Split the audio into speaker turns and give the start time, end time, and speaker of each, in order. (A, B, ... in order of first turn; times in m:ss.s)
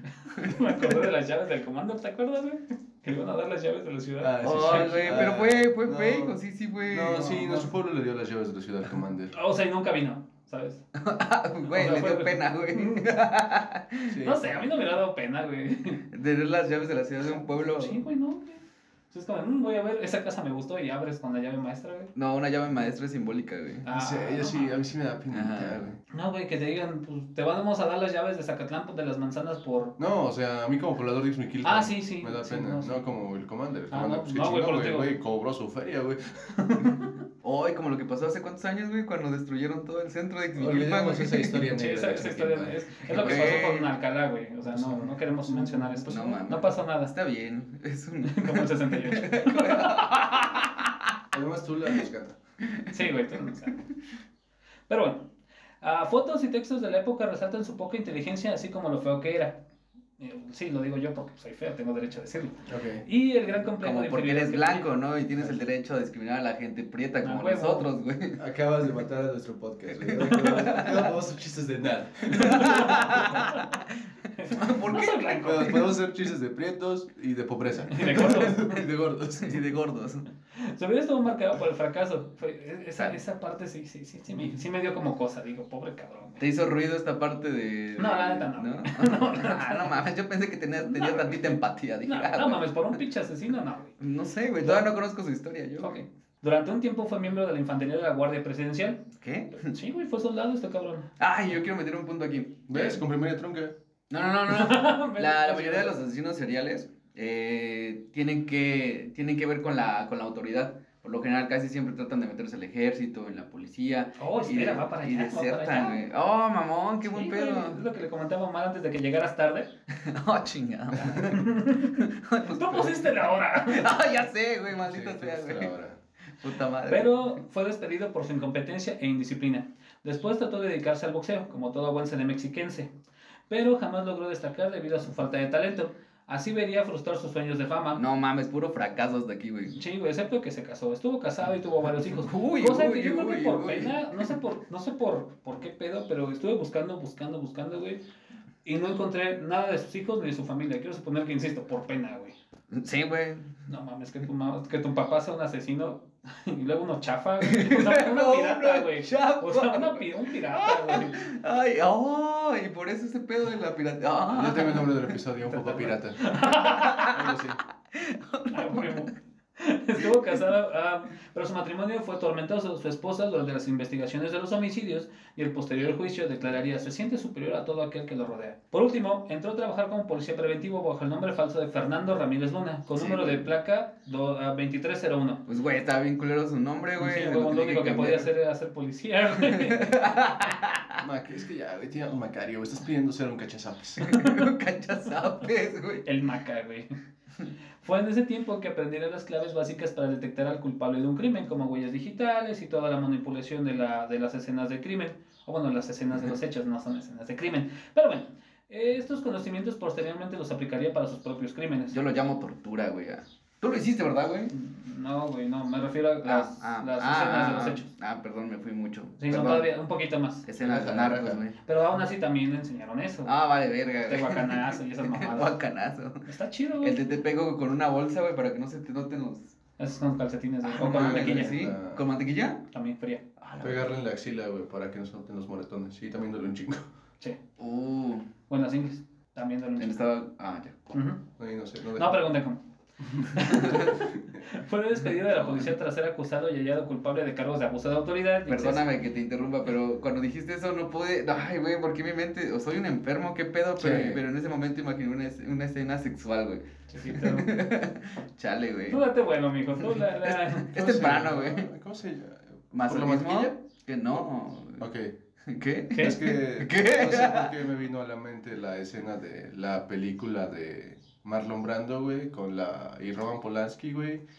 0:00.2-0:05.2 A
0:00.4-0:01.0 B
0:04.2-0:06.4 C
0:04.4-0:07.7 B
0:06.9-0:09.3 C
0:09.3-0:10.8 A
0:11.0-0:14.2 B
0:11.7-0:13.1 A
0:14.1-0:14.7 C
0:14.2-0:16.0 A
0:16.1-0:18.0 B
0:17.2-0:22.1 A
0:22.2-0:23.9 B
0:23.9-0:24.7 A
0:23.9-0:26.0 C
0:25.3-0:25.8 B
0:26.1-0:30.0 A
0:30.0-0:37.0 C
0:31.6-0:33.1 A
0:33.9-0:35.2 A
0:36.6-0:37.2 A
0:37.4-0:41.7 B
0:40.6-0:43.7 C
0:41.7-0:47.1 A
0:43.1-0:43.9 B
0:44.6-0:46.4 C
0:46.1-0:51.0 B
0:48.3-0:50.3 A
0:51.3-0:52.4 C
0:52.9-0:53.8 A
0:54.9-0:55.3 A
0:55.8-0:59.6 A
1:00.2-1:04.9 A
1:02.7-1:03.0 C
1:03.8-1:08.4 B
1:07.2-1:07.9 A
1:08.4-1:13.2 C
1:09.9-1:11.1 B
1:10.2-1:11.1 A
1:12.3-1:13.9 B
1:12.3-1:13.8 A
1:14.3-1:15.9 A
1:14.5-1:15.4 B
1:15.4-1:19.6 C
1:17.9-1:18.8 A
1:18.2-1:18.6 B
1:19.4-1:20.2 B
1:20.6-1:26.4 A
1:26.4-1:33.0 B
1:28.0-1:30.0 A
1:30.8-1:34.0 A
1:34.0-1:36.0 B
1:34.6-1:34.9 A
1:35.8-1:41.1 A
1:39.2-1:39.7 B
1:41.2-1:43.0 B
1:42.7-1:43.7 C
1:44.1-1:57.8 B
1:44.5-1:46.0 A
1:54.2-1:56.0 A
1:57.0-1:59.7 A
1:59.9-2:05.7 B
2:01.2-2:03.9 A
2:04.8-2:06.0 C
2:06.4-2:07.3 B
2:06.9-2:12.9 A
2:13.5-2:18.0 A
2:18.0-2:19.8 B
2:19.8-2:28.0 A
2:22.2-2:24.4 B
2:28.6-2:32.4 A
2:32.7-2:33.6 B
2:33.7-2:41.2 A
2:37.4-2:45.0 B
2:44.3-2:46.2 C
2:45.5-2:47.2 A
2:46.7-2:47.3 B
2:47.1-2:47.6 C
2:47.9-2:49.0 B
2:48.5-3:05.4 A
3:03.0-3:03.5 B
3:05.5-3:08.3 B
3:07.0-3:10.1 A
3:09.4-3:11.0 B
3:11.0-3:14.1 C
3:14.0-3:16.1 B
3:14.1-3:14.5 A
3:16.0-3:16.9 A
3:17.8-3:32.0 A
3:31.9-3:34.5 B
3:34.5-3:37.9 A
3:36.2-3:39.7 B
3:39.2-3:40.5 A
3:40.4-3:41.6 B
3:40.6-3:41.4 C
3:41.6-3:43.3 A
3:43.3-3:46.3 B
3:44.1-3:45.6 A
3:46.2-3:47.0 A
3:46.8-3:49.6 B
3:49.8-3:51.7 A
3:50.6-3:52.6 B
3:50.9-3:52.0 C
3:52.7-3:53.2 A
3:53.4-3:53.9 B
3:53.6-3:56.8 C
3:57.6-3:58.3 B
3:58.5-4:00.0 A
3:59.8-4:00.8 B
4:00.9-4:01.2 A
4:01.4-4:02.2 C
4:02.0-4:02.6 A
4:03.2-4:08.9 A
4:03.6-4:03.9 B
4:05.3-4:05.7 B
4:08.5-4:19.0 B
4:13.8-4:14.2 C
4:16.9-4:17.6 A
4:18.9-4:20.7 A
4:19.8-4:21.7 B
4:20.7-4:23.5 C
4:22.7-4:24.9 B
4:24.8-4:25.1 C
4:25.5-4:27.5 B
4:25.9-4:26.2 A
4:25.9-4:34.2 C